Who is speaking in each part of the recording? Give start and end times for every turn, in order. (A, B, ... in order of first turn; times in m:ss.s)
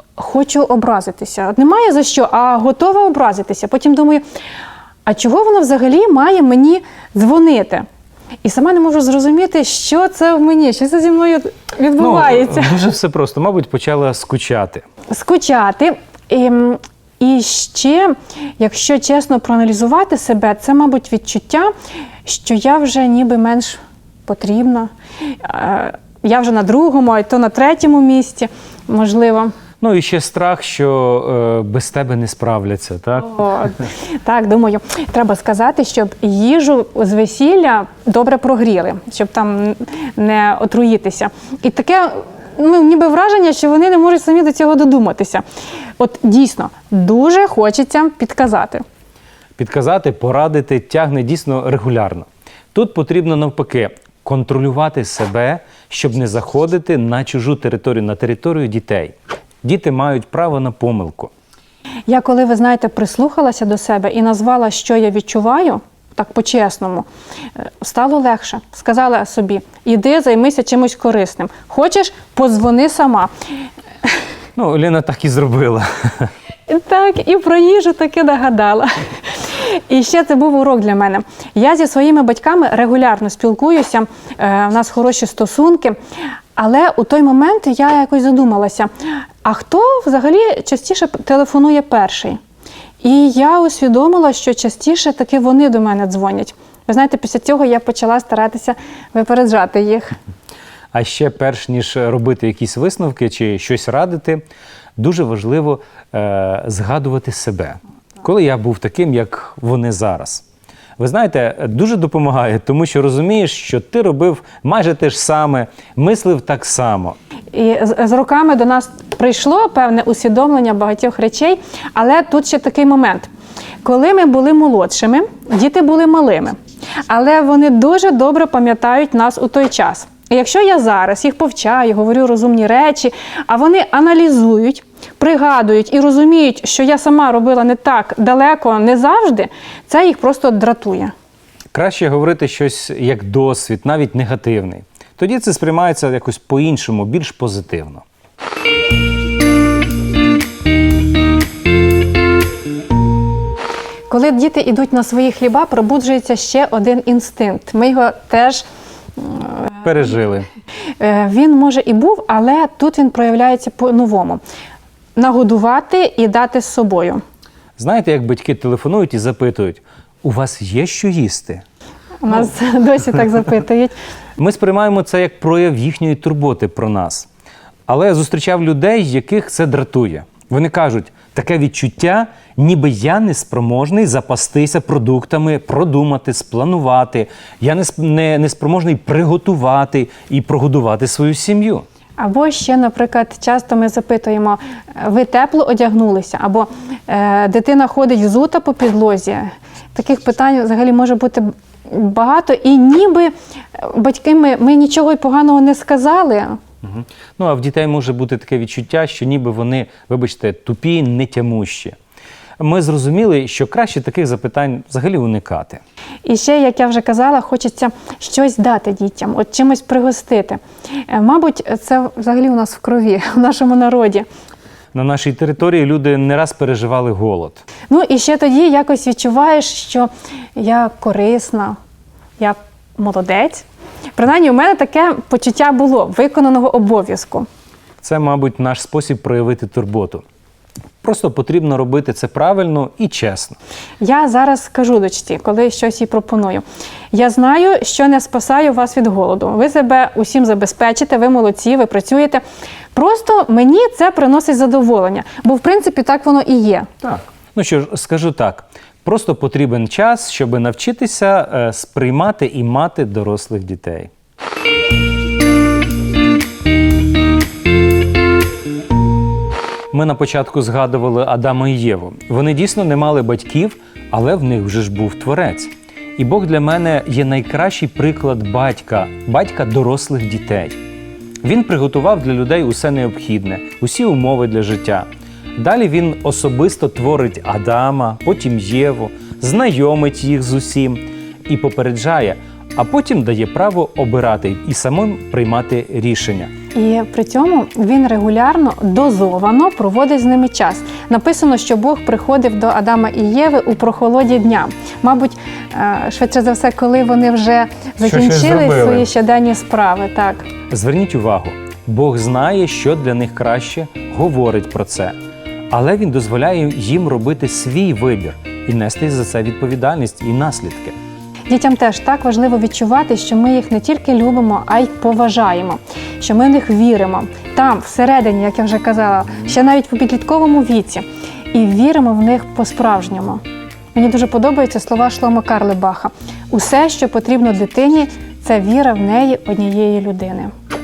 0:00.2-0:04.2 A
0:05.0-0:07.8 A
0:08.4-0:12.8 A
0:12.0-0:14.8 B
0:15.1-0:21.7 A
0:22.2-0:29.5 A
0:29.8-0:33.4 B
0:33.3-0:45.4 A
0:46.0-0:48.8 A
0:49.6-1:01.3 B
1:02.1-1:07.1 A
1:07.6-1:13.3 A
1:14.6-1:16.3 B
1:16.7-1:26.0 A
1:26.6-1:28.9 A
1:29.4-1:32.4 A
1:33.0-1:40.2 A
1:40.9-1:44.4 B
1:45.0-1:50.4 B
1:51.0-1:57.2 B
1:57.5-2:03.3 A
2:03.8-2:06.6 A
2:07.1-2:21.1 A
2:21.7-2:28.0 B
2:34.1-2:38.6 A
2:39.2-2:39.8 A
2:39.8-2:40.5 B
2:41.0-2:44.4 A
2:45.2-2:47.2 A
2:47.8-2:51.6 B
2:52.2-2:53.9 A
2:54.4-2:57.3 B
2:57.9-3:11.8 B
3:12.2-3:26.6 A
3:26.8-3:32.0 B
3:32.6-3:35.8 B
3:36.2-3:44.3 A
3:44.9-3:47.6 B
3:47.9-3:51.8 A
3:52.4-3:57.5 A
3:58.0-4:00.2 B
4:01.0-4:03.6 B
4:04.0-4:12.4 A
4:12.9-4:16.9 A
4:17.0-4:24.1 B
4:29.9-4:40.8 B
4:41.4-4:56.5 B
4:56.7-5:10.5 A
5:08.0-5:09.1 B
5:10.7-5:15.1 B
5:15.7-5:20.9 B
5:21.5-5:33.4 A
5:33.9-5:40.5 A